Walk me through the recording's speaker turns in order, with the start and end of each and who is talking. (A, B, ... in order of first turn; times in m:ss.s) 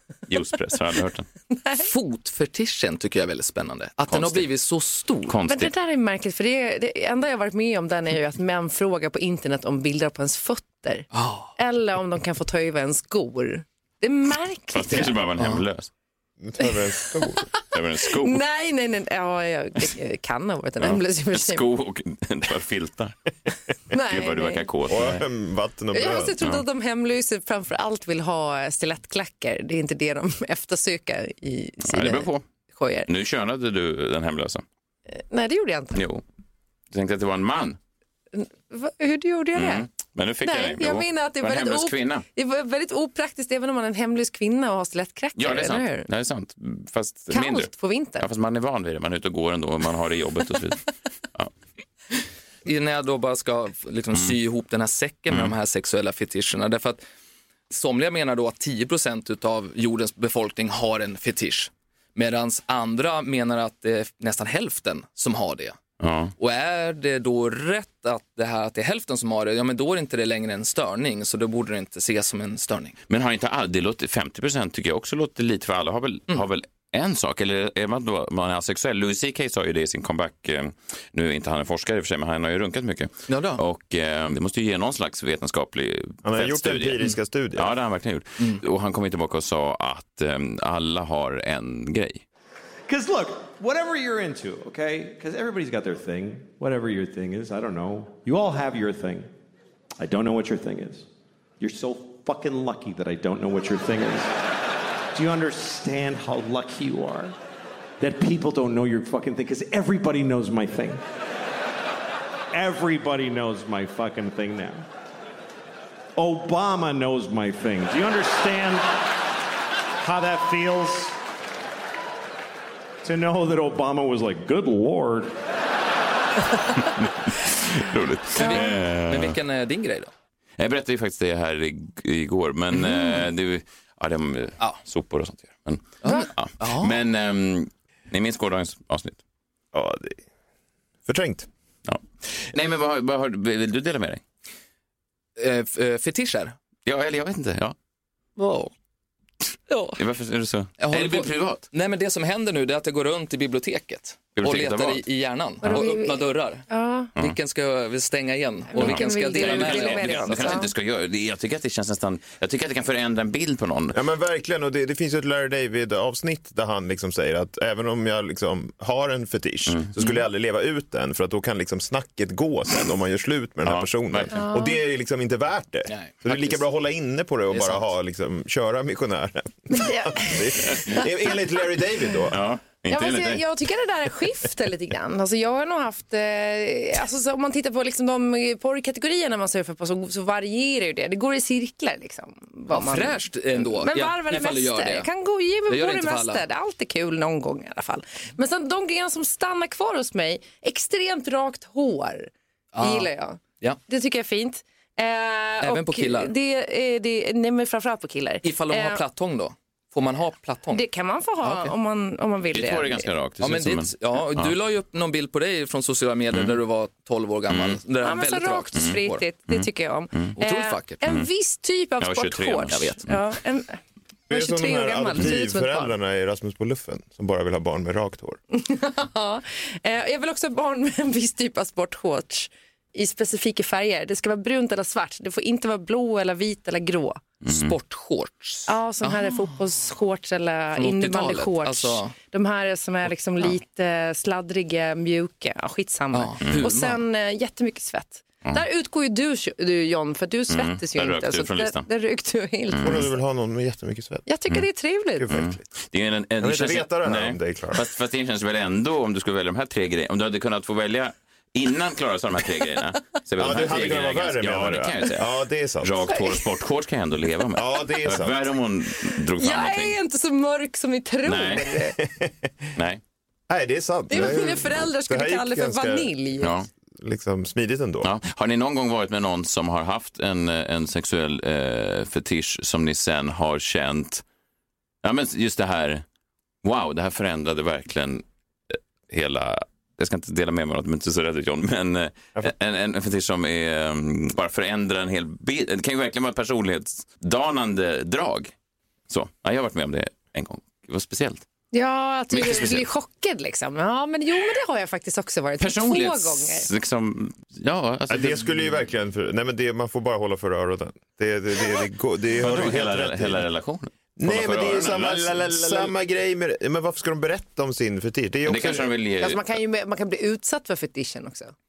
0:00.3-0:01.3 A
0:01.5-0:01.9 B
0:01.8-0:05.4 C
0:04.1-0:04.4 A
0:05.3-0:05.7 A
0:05.5-0:15.1 B
0:11.1-0:11.5 C
0:14.7-0:15.9 A
0:16.4-0:17.5 D
0:16.6-0:17.5 B
0:17.7-0:18.4 A
0:18.1-0:21.6 B
0:20.8-0:23.2 A
0:23.9-0:24.6 B
0:23.9-0:25.2 A
0:24.9-0:26.4 D
0:25.9-0:33.1 B
0:31.8-0:32.4 A
0:33.1-0:34.6 A
0:35.1-0:36.0 B
0:35.9-0:36.2 A
0:36.9-0:37.8 A
0:38.3-0:39.9 B
0:39.5-0:42.2 A
0:40.4-0:46.1 B
0:45.4-0:51.5 A
0:47.3-0:48.2 B
0:52.6-0:57.0 C
0:57.7-1:05.8 C
1:06.0-1:06.3 A
1:06.4-1:13.0 C
1:13.1-1:27.0 A
1:23.3-1:23.6 C
1:26.2-1:27.7 D
1:27.5-1:32.2 A
1:32.9-1:39.3 E
1:40.0-1:41.1 E
1:41.6-1:44.3 E
1:45.1-1:47.4 E
1:48.0-1:51.0 E
1:52.5-1:54.8 E
1:56.2-1:59.0 E
2:00.0-2:01.2 E
2:03.0-2:05.4 E
2:06.8-2:09.4 A
2:08.4-2:10.1 C
2:08.4-2:08.7 B
2:10.6-2:19.2 A
2:16.0-2:17.0 C
2:19.7-2:20.2 D
2:21.0-2:21.5 D
2:21.8-2:24.2 A
2:25.4-2:26.6 C
2:26.8-2:27.7 A
2:28.4-2:28.7 C
2:29.7-2:30.0 B
2:30.0-2:31.6 A
2:30.8-2:40.7 C
2:34.4-2:35.0 A
2:35.6-2:37.1 B
2:38.7-2:40.7 B
2:38.8-2:44.0 A
2:43.9-3:02.4 D
2:49.7-2:49.9 A
2:53.6-2:54.4 A
2:54.3-2:54.8 B
2:55.9-2:56.6 C
2:57.5-2:57.8 C
2:59.7-3:01.1 B
3:02.3-3:03.4 A
3:02.9-3:22.3 B
3:12.7-3:15.1 C
3:15.7-3:16.4 C
3:22.7-3:23.1 C
3:22.8-3:29.0 B
3:25.6-3:26.3 C
3:28.4-3:30.8 C
3:30.7-3:33.1 B
3:31.4-3:31.7 C
3:32.5-3:34.5 A
3:33.4-3:39.2 C
3:37.5-3:37.8 A
3:38.0-3:45.9 B
3:38.7-3:40.3 A
3:40.4-3:41.0 C
3:42.0-3:43.2 A
3:42.7-3:43.0 C
3:44.3-3:48.4 D
3:48.5-3:57.2 B
3:57.4-3:59.5 C
3:57.4-3:57.7 A
3:58.7-4:13.1 B
4:00.7-4:02.1 C
4:06.1-4:07.0 C
4:06.4-4:06.7 A
4:10.5-4:11.8 A
4:12.7-4:13.1 A
4:12.8-4:14.2 D
4:14.2-4:15.3 B
4:15.2-4:15.6 D
4:15.3-4:25.3 A
4:16.4-4:17.8 D
4:23.4-4:26.1 D
4:25.8-4:30.0 A
4:26.1-4:26.4 B
4:27.5-4:28.5 D
4:29.3-4:31.9 B
4:31.2-4:31.7 A
4:32.0-4:32.7 D
4:32.8-4:33.0 A
4:33.5-4:36.1 D
4:34.1-4:36.5 B
4:36.4-4:36.7 A
4:36.9-4:38.1 D
4:38.0-4:44.2 A
4:45.0-4:46.0 A
4:46.6-4:58.5 A
4:59.1-5:01.4 A
5:01.7-5:06.7 B
5:02.3-5:02.8 A
5:05.6-5:08.7 A
5:08.1-5:13.4 D
5:12.4-5:15.9 A
5:14.2-5:18.9 D
5:18.4-5:19.4 A
5:19.2-5:21.5 B